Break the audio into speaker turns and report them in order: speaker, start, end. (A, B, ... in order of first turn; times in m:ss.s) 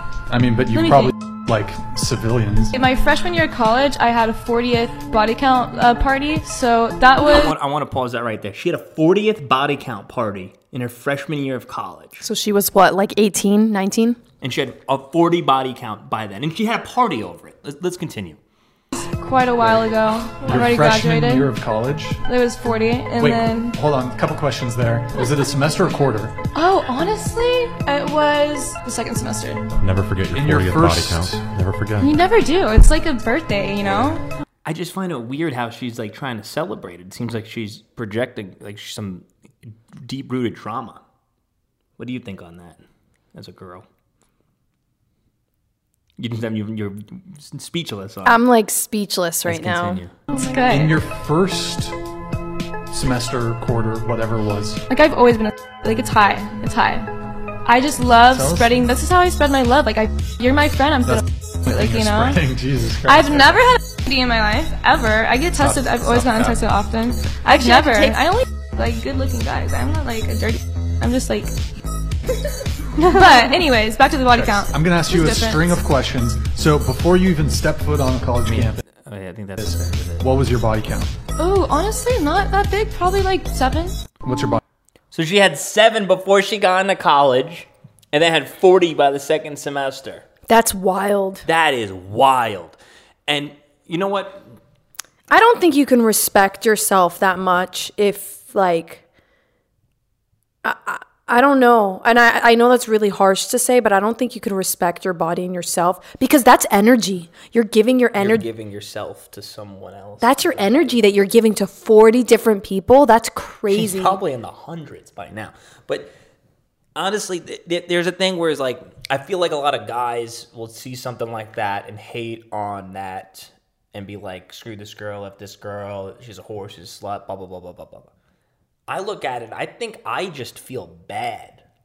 0:00.3-0:02.7 A
0:00.7-0:01.1 B
0:02.7-0:07.6 B
0:07.2-0:12.2 C
0:12.2-0:14.2 D
0:14.4-0:18.4 C
0:18.9-0:21.5 B
0:20.5-0:22.2 A
0:22.2-0:23.8 B
0:23.2-0:26.3 A
0:26.5-0:29.7 B
0:29.8-0:32.1 E
0:30.3-0:31.5 A
0:32.0-0:34.2 B
0:33.8-0:41.0 C
0:42.0-0:42.8 C
0:43.4-0:43.9 C
0:46.2-0:48.4 C
0:48.2-0:50.0 D
0:49.4-0:50.1 C
0:50.3-0:51.0 B
0:50.6-0:52.0 A
0:52.9-0:54.8 A
0:54.9-0:57.1 B
0:57.6-1:02.4 B
0:58.3-0:58.8 A
1:01.0-1:03.7 A
1:03.0-1:11.6 B
1:05.5-1:06.6 A
1:13.0-1:15.7 B
1:14.3-1:18.8 A
1:18.5-1:20.3 C
1:19.6-1:21.1 A
1:21.4-1:24.0 B
1:24.2-1:24.6 A
1:25.1-1:30.2 C
1:30.5-1:31.4 D
1:31.4-1:34.6 C
1:35.3-1:39.0 D
1:40.6-1:48.5 D
1:48.2-1:51.0 C
1:50.2-1:54.2 D
1:53.7-1:56.1 C
1:57.0-2:08.1 C
2:08.9-2:11.6 C